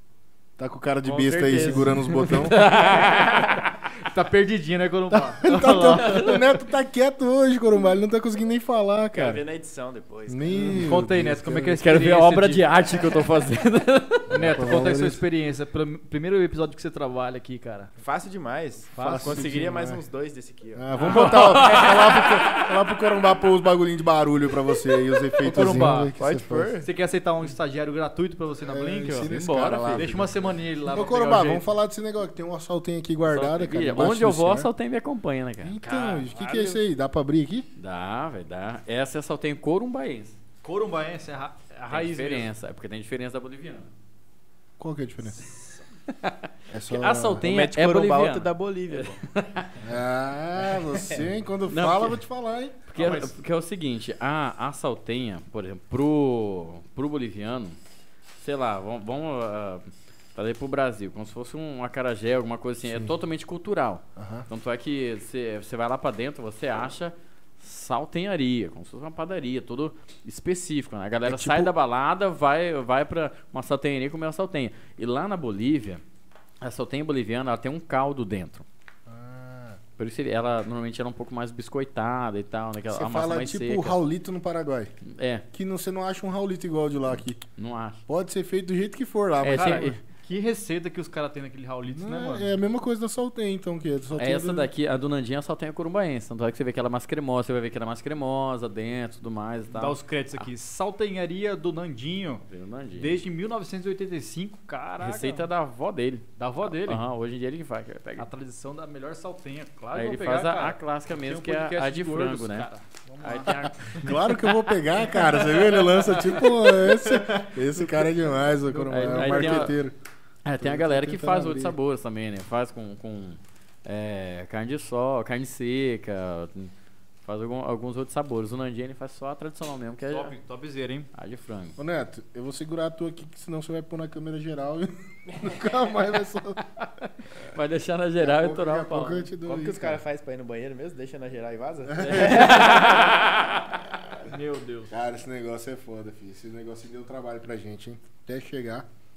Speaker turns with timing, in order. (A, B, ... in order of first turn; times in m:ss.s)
0:00.6-0:02.6 A
0:01.0-0:06.4 B
0:02.5-0:03.7 C
0:05.1-0:09.4 A
0:09.1-0:10.7 D
0:10.3-0:11.8 A
0:10.7-0:12.7 B
0:11.8-0:14.6 C
0:14.3-0:15.2 A
0:14.3-0:17.9 B
0:18.0-0:20.9 D
0:18.9-0:19.6 B
0:19.0-0:20.1 A
0:20.7-0:26.8 A
0:21.0-0:22.7 C
0:25.4-0:26.1 B
0:25.6-0:26.9 D
0:26.8-0:29.3 B
0:28.6-0:34.7 A
0:29.2-0:30.1 C
0:30.0-0:31.6 B
0:33.3-0:35.8 C
0:35.6-0:37.7 A
0:35.8-0:36.8 B
0:37.8-0:40.4 C
0:40.6-0:42.5 B
0:41.9-0:43.9 C
0:44.8-0:45.5 A
0:46.2-0:49.8 C
0:46.7-0:47.5 A
0:47.4-0:49.2 D
0:49.8-0:52.8 A
0:51.7-0:52.2 C
0:52.9-0:57.8 C
0:53.0-0:53.3 B
0:58.4-1:16.0 C
1:02.8-1:03.1 A
1:04.2-1:04.5 A
1:11.2-1:11.7 A
1:16.6-1:18.6 C
1:19.1-1:19.8 A
1:20.0-1:24.0 C
1:22.9-1:25.0 A
1:25.1-1:25.4 C
1:25.5-1:27.4 A
1:27.6-1:28.0 C
1:28.1-1:30.0 A
1:29.4-1:30.0 C
1:29.5-1:32.5 B
1:31.9-1:34.7 A
1:34.2-1:40.5 C
1:39.7-1:42.4 B
1:42.5-1:43.2 C
1:43.0-1:45.5 B
1:45.0-1:48.3 C
1:46.4-1:47.0 B
1:48.2-1:54.0 B
1:49.9-1:52.7 C
1:53.2-1:54.7 C
1:53.9-2:00.0 A
1:55.9-1:59.7 B
1:58.9-1:59.8 C
2:00.4-2:06.7 C
2:00.6-2:01.8 A
2:07.2-2:10.3 C
2:10.1-2:11.1 B
2:11.1-2:11.8 C
2:11.8-2:16.6 A
2:17.3-2:19.3 C
2:18.2-2:20.0 A
2:19.4-2:22.9 D
2:21.9-2:22.5 A
2:22.0-2:23.8 C
2:24.3-2:24.9 B
2:24.9-2:28.9 A